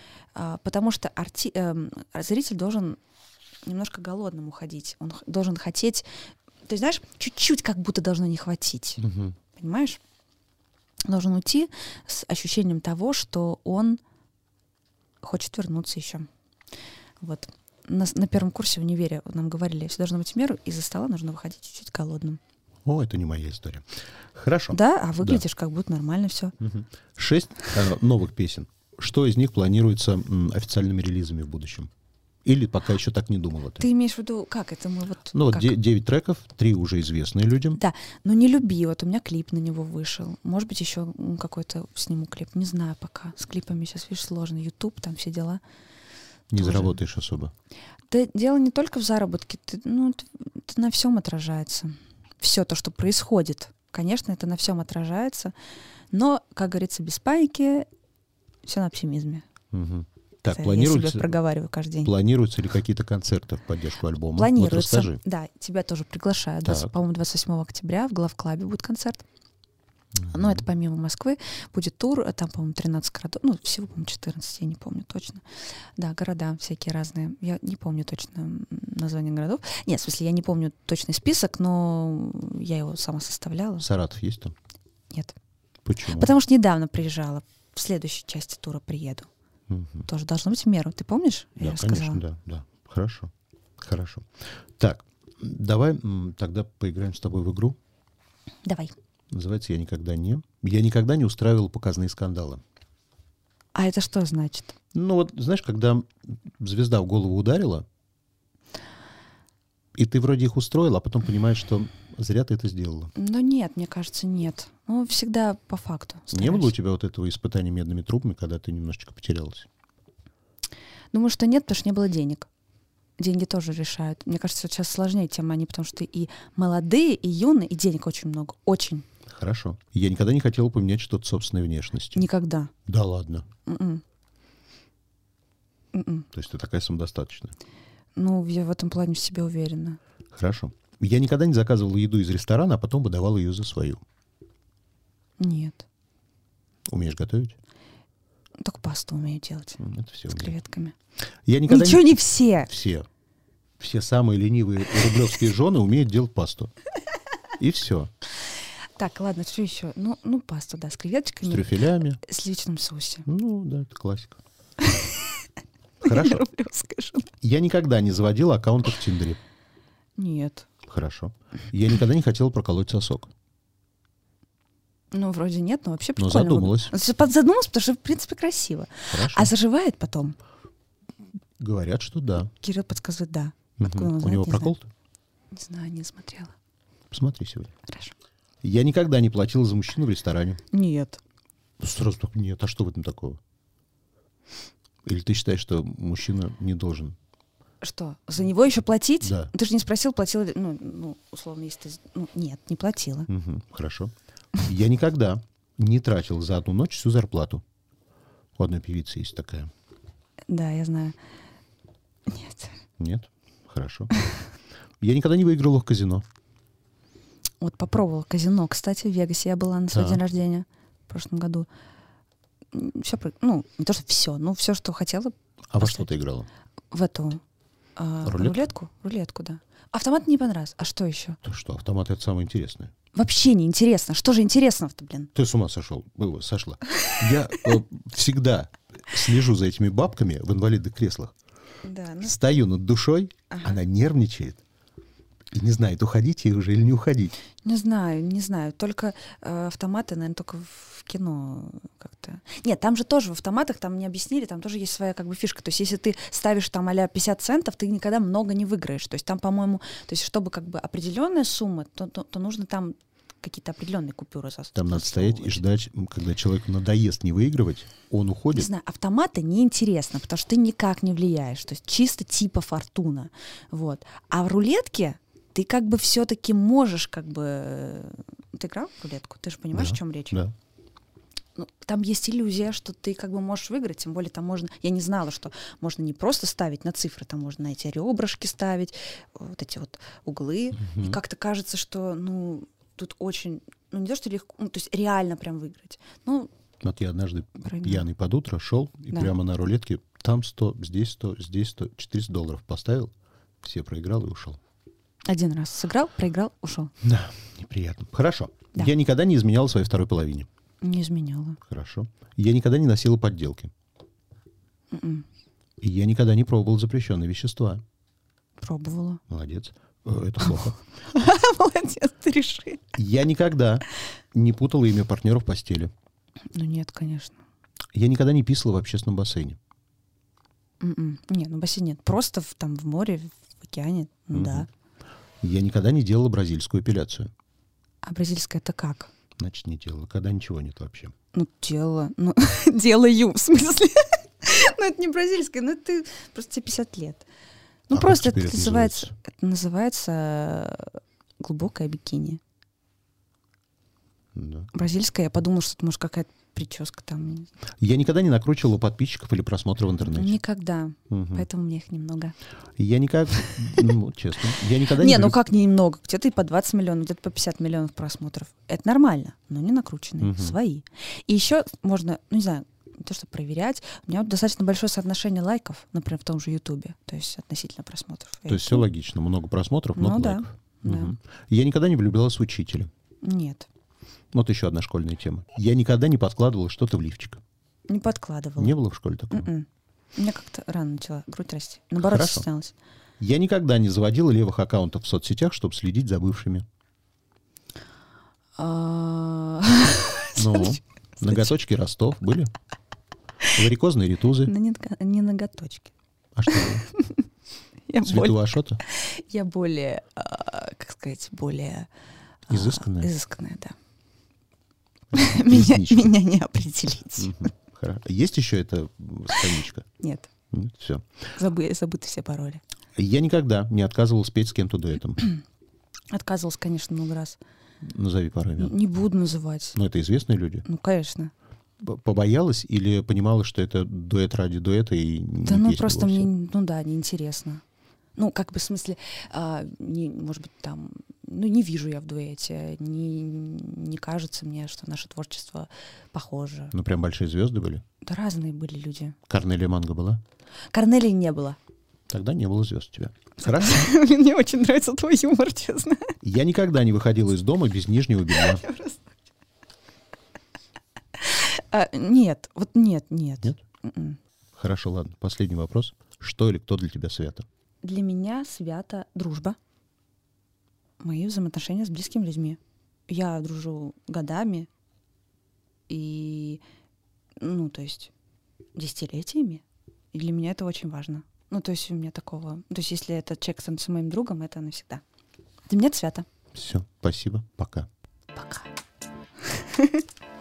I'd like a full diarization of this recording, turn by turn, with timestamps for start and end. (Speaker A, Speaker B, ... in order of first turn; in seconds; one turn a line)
Speaker A: 0.3-3.0
Speaker A: 3.6-6.1
Speaker A: 6.7-9.0
Speaker B: 9.0-9.4
Speaker A: 9.6-10.0
Speaker A: 11.1-14.0
Speaker A: 15.2-16.3
Speaker A: 17.2-22.4
Speaker B: 22.9-25.4
Speaker A: 24.7-26.6
Speaker B: 26.6-31.9
Speaker B: 32.5-33.9
Speaker A: 33.8-35.8
Speaker B: 35.3-37.8
Speaker A: 37.8-45.6
Speaker B: 46.5-47.5
Speaker A: 46.6-47.0
Speaker A: 48.1-55.5
Speaker A: 56.1-57.9
Speaker A: 58.6-59.5
Speaker B: 59.7-61.4
Speaker A: 60.5-62.1
Speaker B: 62.0-65.2
Speaker A: 64.4-69.2
Speaker B: 66.6-66.9
Speaker B: 70.2-70.6
Speaker A: 70.3-75.4
Speaker A: 76.0-83.9
Speaker B: 83.8-84.5
Speaker B: 85.8-86.3
Speaker A: 86.1-89.3
Speaker B: 89.7-90.1
Speaker A: 90.1-92.2
Speaker B: 91.6-97.8
Speaker A: 98.7-99.0
Speaker B: 99.3-102.6
Speaker A: 103.8-104.8
Speaker B: 104.9-107.9
Speaker B: 110.0-113.1
Speaker A: 113.2-116.7
Speaker B: 116.3-119.7
Speaker A: 121.1-122.5
Speaker A: 123.2-129.1
Speaker B: 129.3-132.3
Speaker A: 132.1-132.7
Speaker B: 132.9-133.5
Speaker A: 133.7-134.0
Speaker A: 135.9-136.3
Speaker B: 136.3-137.6
Speaker A: 138.2-140.0
Speaker B: 140.3-144.0
Speaker A: 145.4-145.8
Speaker B: 146.9-147.6
Speaker A: 148.6-150.9
Speaker B: 149.8-150.5
Speaker B: 151.5-153.1
Speaker A: 151.7-152.7
Speaker B: 153.8-156.7
Speaker B: 157.6-158.1
Speaker A: 159.0-163.3
Speaker B: 161.4-162.2
Speaker B: 163.3-164.4
Speaker A: 164.8-165.4
Speaker A: 166.0-167.3
Speaker B: 166.0-166.4
Speaker B: 167.4-169.4
Speaker A: 170.2-170.7
Speaker B: 170.9-173.3
Speaker A: 175.1-180.4
Speaker B: 176.2-176.9
Speaker B: 179.1-179.5
Speaker B: 181.6-182.5
Speaker A: 182.6-184.7
Speaker B: 183.8-184.9
Speaker A: 185.5-186.6
Speaker B: 187.1-187.7
Speaker A: 187.9-188.1
Speaker B: 188.6-190.6
Speaker A: 190.7-191.2
Speaker B: 191.8-193.4
Speaker B: 195.1-197.2
Speaker A: 197.8-203.3
Speaker B: 199.2-199.5
Speaker B: 203.3-207.6
Speaker B: 208.6-209.7
Speaker A: 210.5-211.2
Speaker A: 212.3-212.7
Speaker B: 213.0-214.1
Speaker B: 215.0-216.3
Speaker A: 217.6-221.7
Speaker B: 219.9-220.2
Speaker A: 222.7-226.1
Speaker B: 225.7-226.5
Speaker A: 226.9-227.4
Speaker A: 228.0-231.4
Speaker B: 228.2-228.7
Speaker B: 231.4-232.9
Speaker A: 233.1-235.3
Speaker B: 235.3-241.3
Speaker A: 241.8-242.5
Speaker B: 242.2-244.6
Speaker A: 243.5-243.8
Speaker B: 245.5-247.3
Speaker A: 247.6-265.6
Speaker B: 264.8-268.7
Speaker A: 268.5-280.4
Speaker B: 279.7-280.5
Speaker A: 281.6-296.5
Speaker B: 290.8-291.2
Speaker B: 296.8-304.6
Speaker A: 297.6-298.1
Speaker A: 305.3-306.9
Speaker B: 307.0-310.5
Speaker A: 310.8-311.6
Speaker B: 311.6-313.7
Speaker A: 314.9-315.3
Speaker B: 315.8-317.8
Speaker A: 318.6-319.2
Speaker B: 319.3-320.8
Speaker A: 321.1-322.9
Speaker B: 322.9-325.9
Speaker A: 326.5-327.4
Speaker B: 327.9-329.6
Speaker A: 330.8-334.7
Speaker B: 334.3-334.7
Speaker B: 335.4-337.3
Speaker A: 338.0-339.1
Speaker B: 339.4-341.1
Speaker A: 341.3-347.3
Speaker A: 347.9-352.4
Speaker B: 347.9-349.1
Speaker B: 354.4-354.7
Speaker A: 354.7-357.5
Speaker B: 357.8-360.4
Speaker A: 360.1-362.4
Speaker B: 361.1-361.5
Speaker B: 362.8-365.4
Speaker A: 364.9-378.9
Speaker B: 370.2-370.6
Speaker B: 378.5-382.9
Speaker A: 380.0-381.1
Speaker A: 383.2-383.7
Speaker B: 384.3-387.4
Speaker A: 387.9-388.8
Speaker B: 388.6-389.5
Speaker A: 389.3-392.8
Speaker B: 392.0-392.5
Speaker B: 393.2-396.7
Speaker A: 398.6-401.5
Speaker B: 400.4-402.5
Speaker B: 403.5-404.5
Speaker A: 404.4-405.9
Speaker B: 406.4-406.9
Speaker A: 406.5-407.2
Speaker A: 407.9-411.9
Speaker B: 408.0-408.8
Speaker A: 412.5-413.8
Speaker B: 412.5-413.1
Speaker B: 415.1-416.2
Speaker A: 415.1-417.4
Speaker B: 417.2-419.9
Speaker A: 420.0-420.3
Speaker B: 420.5-421.1
Speaker A: 421.4-422.6
Speaker B: 423.0-425.3
Speaker A: 426.1-427.4
Speaker B: 427.8-428.8
Speaker A: 428.6-429.8
Speaker B: 429.8-430.7
Speaker A: 430.7-431.3
Speaker B: 431.8-436.3
Speaker A: 435.4-437.6
Speaker A: 438.2-446.7
Speaker B: 446.7-447.8
Speaker A: 448.0-449.2
Speaker B: 449.3-450.2
Speaker A: 450.7-451.6
Speaker B: 452.1-453.9
Speaker A: 453.4-456.2
Speaker B: 456.2-458.6
Speaker A: 458.3-459.1
Speaker A: 461.2-464.2
Speaker B: 464.6-467.5
Speaker A: 467.8-469.6
Speaker A: 471.0-474.7
Speaker A: 475.9-476.6
Speaker A: 477.4-478.1
Speaker A: 478.8-485.0
Speaker A: 485.7-486.3
Speaker B: 486.5-487.9
Speaker A: 488.4-488.7
Speaker A: 489.5-490.0